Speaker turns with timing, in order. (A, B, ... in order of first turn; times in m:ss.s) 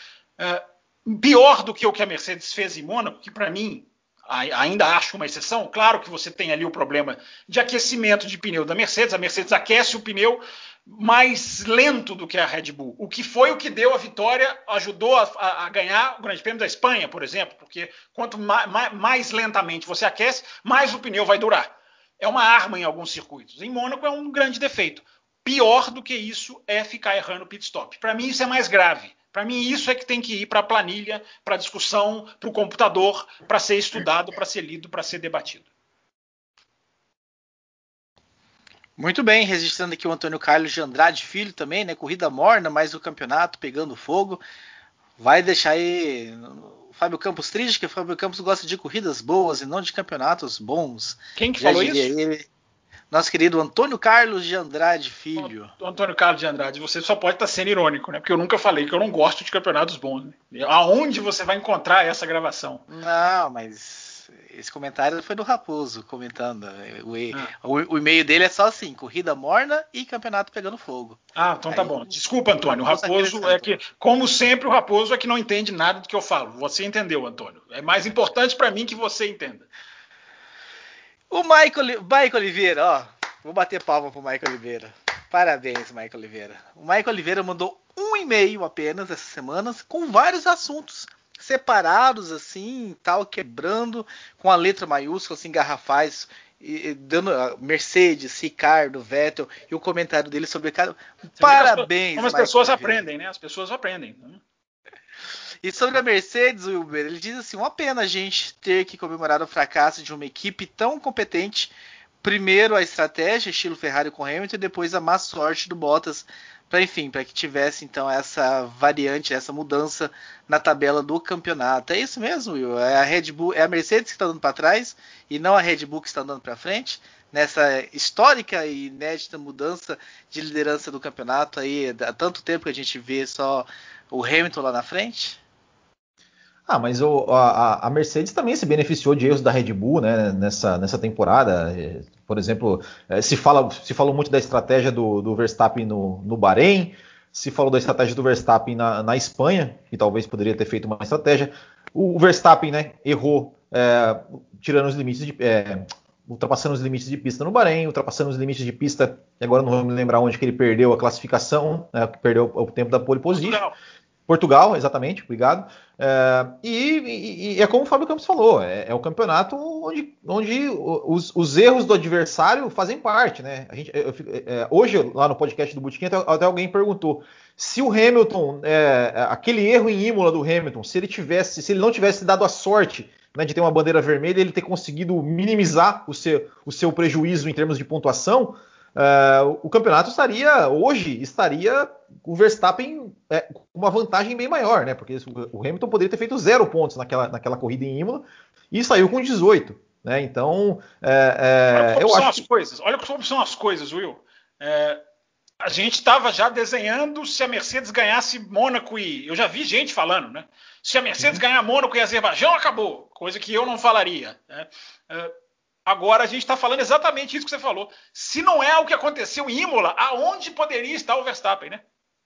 0:00.4-0:35.6 A
0:39.0-0:44.4 B
0:45.2-0:52.5 B
0:51.4-0:52.1 A
0:53.1-0:55.7 B
0:55.4-1:02.8 A
1:02.9-1:11.2 B
1:11.4-1:19.7 A
1:11.7-1:12.0 B
1:12.6-1:13.8 B
1:21.3-1:43.0 B
1:41.4-1:44.4 A
1:45.6-2:15.4 B
2:16.7-2:43.6 C
2:43.3-2:43.8 A
2:44.3-3:22.4 C
3:21.7-3:25.0 A
3:25.6-3:35.3 A
3:35.8-3:41.8 A